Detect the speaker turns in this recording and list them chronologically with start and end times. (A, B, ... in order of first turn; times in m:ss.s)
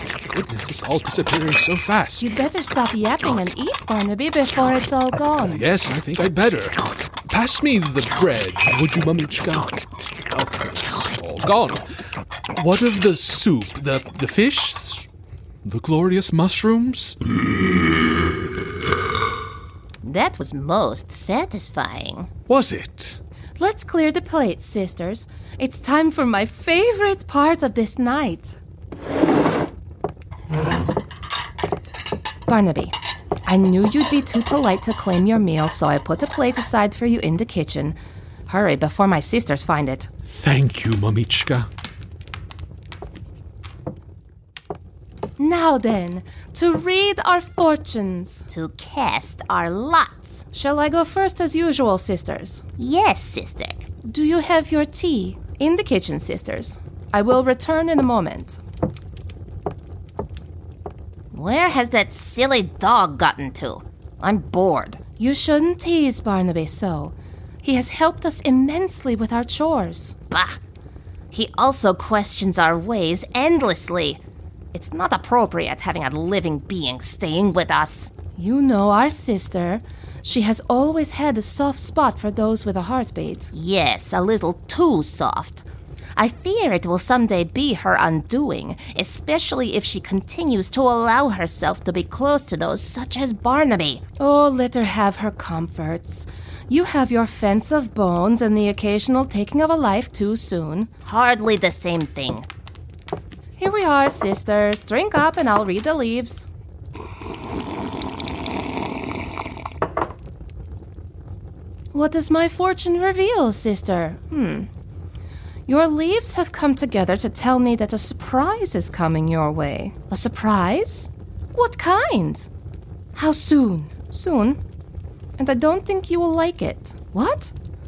0:00.3-0:02.3 A
0:02.2-0:05.6 B
0:05.5-0:06.8 A
0:07.3-0:11.8 A
0:12.5-0:15.1 A
0:15.6-0:17.2 A
0:20.0-0:22.3 C
0:22.5-0:23.2 A
0:23.6-0:28.6 B
0:32.5-0:32.9 B
0:33.5-0:38.0 B
0:38.5-0:40.1 B
0:40.3-0:41.7 A
0:45.4-0:48.5 B
0:48.5-0:50.4 C
0:50.5-0:52.6 B
0:52.8-0:53.8 C
0:54.0-0:58.6 B
1:01.3-1:05.0 C
1:05.0-1:10.3 B
1:10.3-1:10.6 C
1:11.3-1:14.2 C
1:14.7-1:18.2 C
1:18.2-1:23.5 B
1:23.5-1:25.6 C
1:26.2-1:34.1 C
1:34.1-1:41.0 B
1:41.0-1:42.5 C
1:43.6-1:46.4 B
1:51.9-1:54.7 B
1:55.7-2:02.5 B
2:03.1-2:04.6 B
2:05.4-2:07.5 B